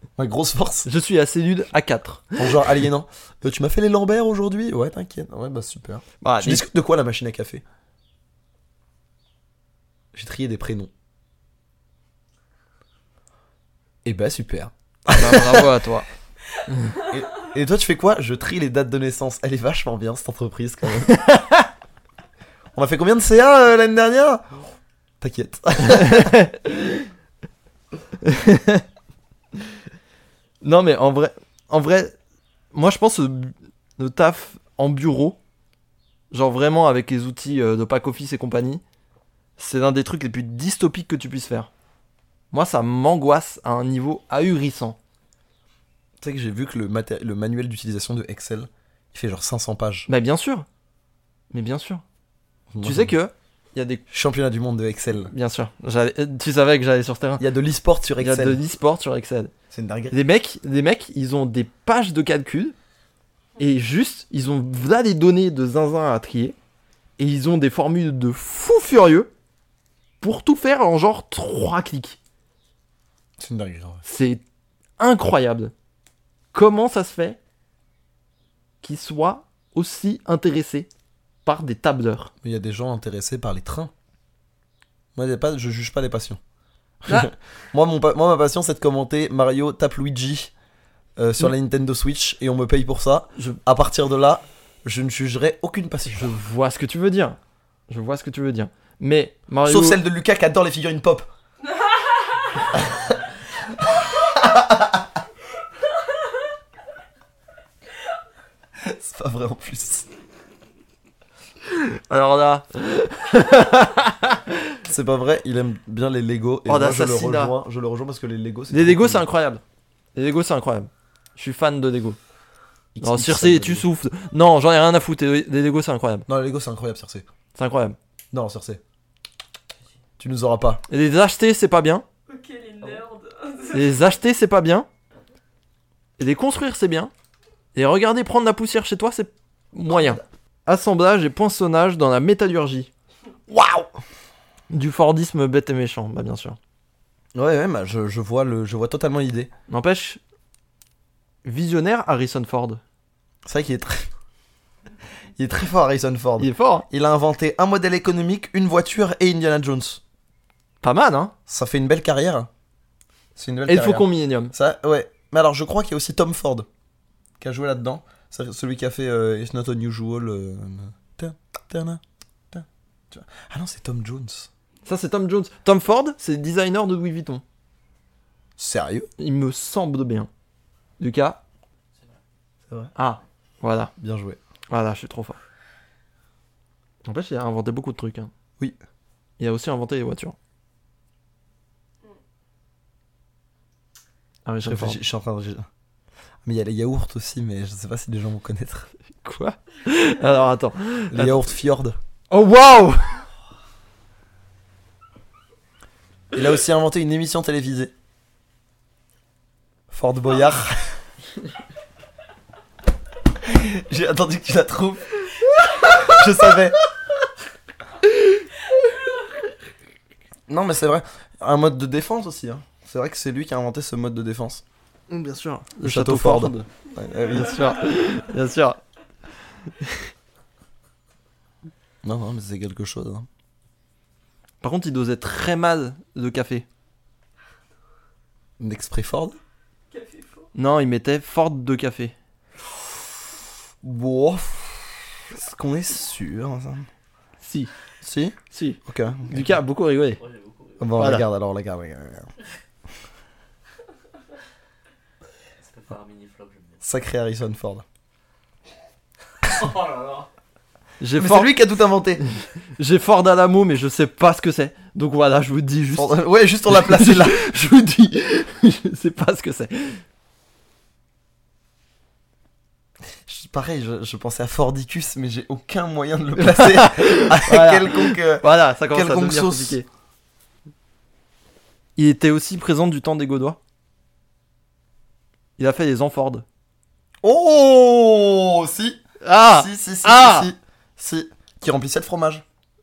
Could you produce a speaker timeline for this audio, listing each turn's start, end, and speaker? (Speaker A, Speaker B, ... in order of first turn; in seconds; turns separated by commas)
Speaker A: 0.2-0.9, Speaker B: 0.9-2.8, Speaker A: 2.4-7.6, Speaker B: 6.2-6.7, Speaker A: 10.1-10.9, Speaker A: 14.1-15.7, Speaker B: 15.1-16.1, Speaker B: 16.7-17.0, Speaker A: 17.0-21.2, Speaker B: 21.1-21.7, Speaker A: 22.8-24.6, Speaker A: 25.2-26.4, Speaker B: 25.8-27.1, Speaker B: 28.2-28.9, Speaker B: 30.6-32.1, Speaker B: 32.7-35.4, Speaker B: 36.3-38.8, Speaker B: 39.6-41.7, Speaker B: 42.5-45.0, Speaker A: 46.2-50.1, Speaker B: 50.1-50.7, Speaker B: 51.5-52.0, Speaker A: 52.7-53.1, Speaker B: 52.8-54.0, Speaker A: 54.1-55.3, Speaker B: 55.2-57.4, Speaker A: 57.4-58.6, Speaker B: 58.2-59.5, Speaker A: 59.7-60.2, Speaker B: 60.1-62.8, Speaker B: 63.6-66.6, Speaker B: 67.2-69.3, Speaker B: 70.2-72.2, Speaker A: 73.4-74.0, Speaker B: 74.0-74.4, Speaker B: 75.0-75.7, Speaker B: 76.5-77.4, Speaker B: 78.8-80.9, Speaker B: 81.5-82.3, Speaker A: 82.4-83.9, Speaker A: 85.2-86.4, Speaker A: 87.0-90.5, Speaker A: 91.2-96.3, Speaker B: 96.1-100.0, Speaker A: 99.7-101.3, Speaker A: 102.8-103.0, Speaker A: 104.3-105.0, Speaker A: 108.8-110.1, Speaker B: 111.7-114.8, Speaker A: 114.9-119.3, Speaker B: 116.7-117.5, Speaker B: 118.7-119.6, Speaker B: 120.2-122.2, Speaker A: 123.0-123.9, Speaker B: 123.0-126.3, Speaker A: 126.3-127.2, Speaker B: 127.5-128.0, Speaker A: 128.3-128.8, Speaker A: 130.2-130.8, Speaker B: 130.9-132.1, Speaker C: 132.3-134.0, Speaker B: 133.7-134.9, Speaker B: 136.2-137.1, Speaker B: 137.8-142.9, Speaker A: 143.6-143.9, Speaker B: 144.7-146.6, Speaker A: 147.3-149.5, Speaker B: 149.7-150.2, Speaker B: 151.4-152.8, Speaker A: 153.5-154.1, Speaker A: 155.4-160.0, Speaker B: 156.4-156.9, Speaker B: 160.8-161.3, Speaker A: 161.5-162.5, Speaker A: 163.4-166.7, Speaker B: 163.7-164.5, Speaker A: 167.4-172.0, Speaker A: 172.5-174.5, Speaker B: 174.8-177.4, Speaker A: 178.6-179.1, Speaker B: 179.2-180.3, Speaker B: 181.0-181.4, Speaker B: 183.0-183.9, Speaker A: 184.0-184.4, Speaker B: 184.7-185.4, Speaker B: 187.1-188.3, Speaker B: 189.4-190.4, Speaker B: 194.4-195.0, Speaker A: 194.6-195.7, Speaker A: 196.4-198.9, Speaker B: 199.2-201.5, Speaker A: 201.1-202.0, Speaker B: 202.3-203.3, Speaker A: 206.3-207.9, Speaker A: 209.9-211.0, Speaker A: 213.4-215.2, Speaker A: 215.8-216.8, Speaker B: 218.0-218.4, Speaker A: 220.5-224.6, Speaker B: 225.1-226.7, Speaker A: 225.8-227.7, Speaker B: 227.3-228.8, Speaker B: 229.7-230.1, Speaker A: 232.0-233.3, Speaker B: 234.6-236.7, Speaker A: 238.6-239.4, Speaker C: 239.9-240.5, Speaker B: 240.6-242.2, Speaker A: 243.8-246.9, Speaker B: 247.4-247.7, Speaker A: 248.0-249.5, Speaker B: 248.5-250.2, Speaker D: 250.2-250.8, Speaker A: 250.8-252.3, Speaker B: 251.0-251.3, Speaker D: 255.6-256.8, Speaker A: 256.8-257.9, Speaker D: 259.4-260.3, Speaker B: 261.0-261.5, Speaker A: 261.2-262.2, Speaker B: 262.2-266.2, Speaker A: 265.9-267.5, Speaker B: 266.7-270.0, Speaker A: 273.3-279.8, Speaker B: 276.4-279.9, Speaker B: 282.0-283.6, Speaker B: 285.6-286.4, Speaker A: 287.2-292.4, Speaker B: 289.2-290.5